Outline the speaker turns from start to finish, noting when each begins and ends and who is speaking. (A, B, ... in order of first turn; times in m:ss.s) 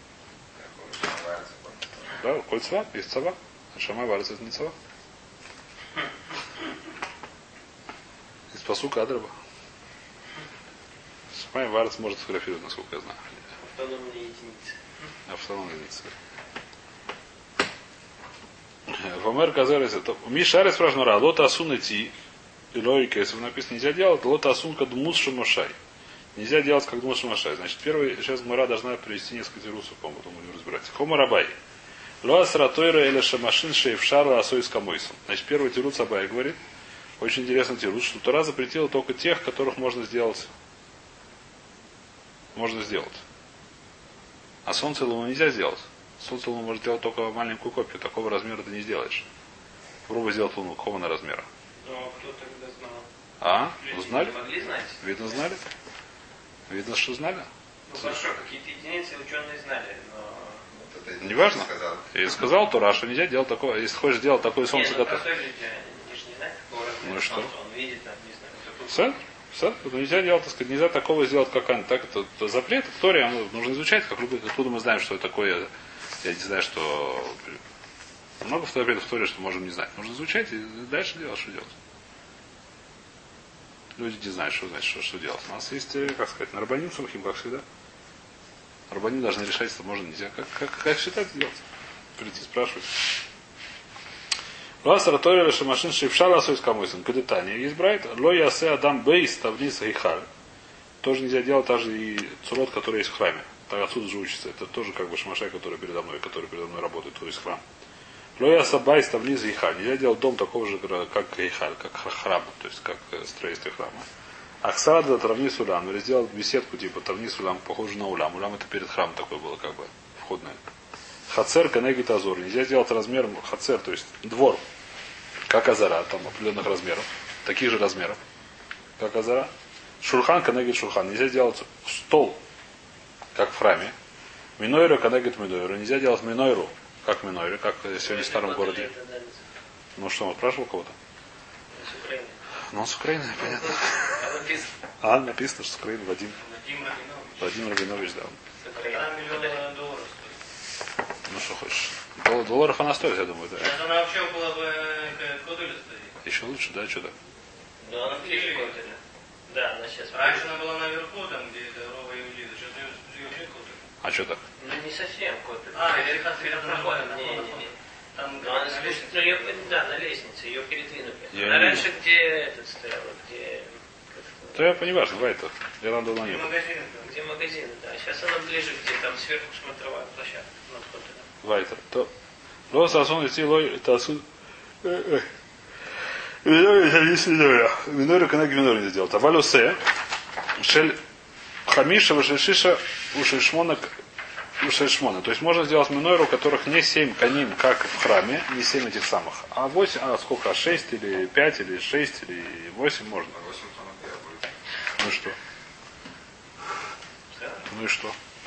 0:00.5-0:02.1 A
0:02.2-0:04.7 B
0:08.5-0:09.3 B
0:11.3-0:13.2 B
0:13.6-0:14.8 C
0:15.2-0:16.1 B
0:18.9-0:22.1 B
0:22.7-0:25.7 B
0:26.3-0:31.5 B
0:32.2-0:36.6 B
0:37.2-0:40.5 B
0:42.5-0:43.2 B
0:44.6-0:49.2 B
0:50.1-0:51.4 B
0:51.8-0:53.0 C
0:53.4-0:54.4 B
0:53.8-0:55.1 C
0:55.0-0:55.6 B
0:56.7-0:58.2 B
0:57.9-1:00.6 C
1:00.7-1:02.1 A
1:01.2-1:05.2 B
1:04.7-1:08.9 C
1:07.0-1:07.5 B
1:08.9-1:15.7 B
1:16.2-1:17.6 B
1:18.4-1:21.7 B
1:24.0-1:27.6 B
1:28.9-1:31.6 B
1:32.2-1:33.0 B
1:34.8-1:40.3 B
1:41.0-1:47.6 B
1:48.4-1:54.0 B
1:54.6-2:00.6 B
2:01.3-2:04.6 B
2:05.5-2:08.2 B
2:09.0-2:09.5 B
2:10.0-2:12.4 B
2:13.3-2:13.9 B
2:14.6-2:18.9 B
2:18.0-2:19.4 C
2:20.0-2:21.0 B
2:21.7-2:22.4 C
2:22.7-2:24.3 B
2:23.4-2:24.7 C
2:25.0-2:26.4 B
2:26.4-2:27.5 D
2:27.4-2:28.4 B
2:28.6-2:29.6 C
2:28.9-2:30.3 D
2:31.3-2:33.8 B
2:33.6-2:36.1 D
2:36.2-2:37.1 B
2:37.8-2:40.5 C
2:38.0-2:38.8 D
2:40.1-2:43.8 D
2:44.0-2:44.4 B
2:44.6-2:47.7 C
2:45.7-2:49.7 D
2:48.3-2:54.9 C
2:51.3-2:51.9 B
2:54.5-2:56.5 B
2:56.2-2:57.1 D
2:57.0-3:01.3 C
3:01.4-3:02.1 B
3:02.7-3:04.2 B
3:04.8-3:05.3 B
3:06.4-3:09.8 B
3:10.6-3:11.0 B
3:11.6-3:13.9 B
3:14.6-3:23.3 B
3:23.3-3:24.5 A
3:25.0-3:25.4 B
3:27.3-3:27.6 C
3:27.7-3:28.2 B